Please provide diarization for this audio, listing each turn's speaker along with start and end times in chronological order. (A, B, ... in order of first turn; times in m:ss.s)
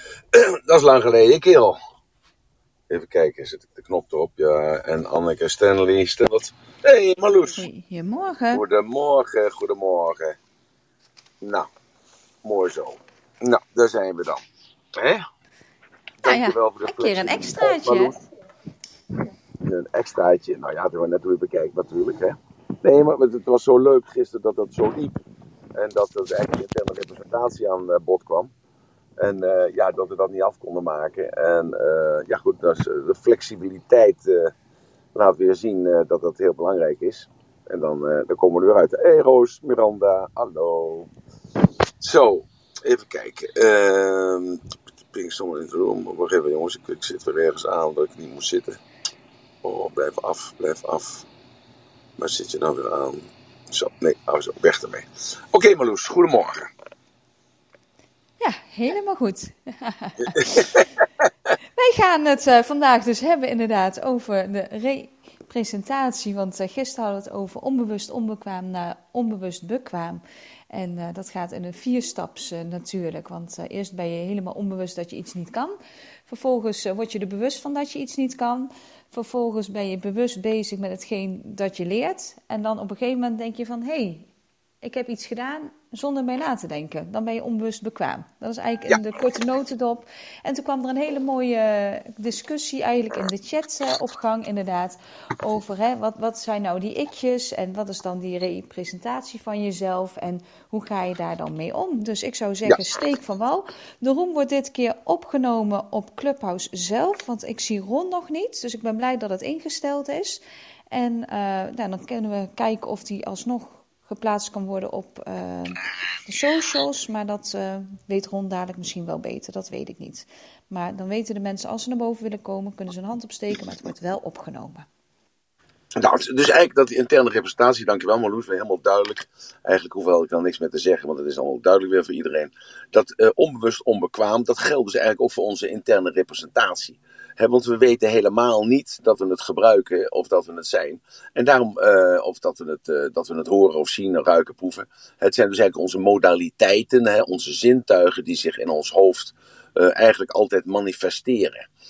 0:00.3-0:01.8 A
0:02.9-0:07.7 A
0:07.5-0:08.6 B
0:08.5-0:10.4 A
0:11.4-0:11.7 A
0:12.4-0:14.4 A
0:14.9-0:15.2 A
0:16.2-0:18.2 A
0:16.2-0:18.2 B
0:19.6-0:25.2 A
0:25.7-0:28.5 A
0:29.2-0:34.5 A
0:35.1-0:41.1 A
0:42.0-0:48.8 A
0:49.6-0:51.2 A
0:52.2-0:56.7 A
0:58.4-1:00.7 B
1:01.7-1:24.3 B
1:24.8-2:04.8 B
2:06.0-2:31.7 A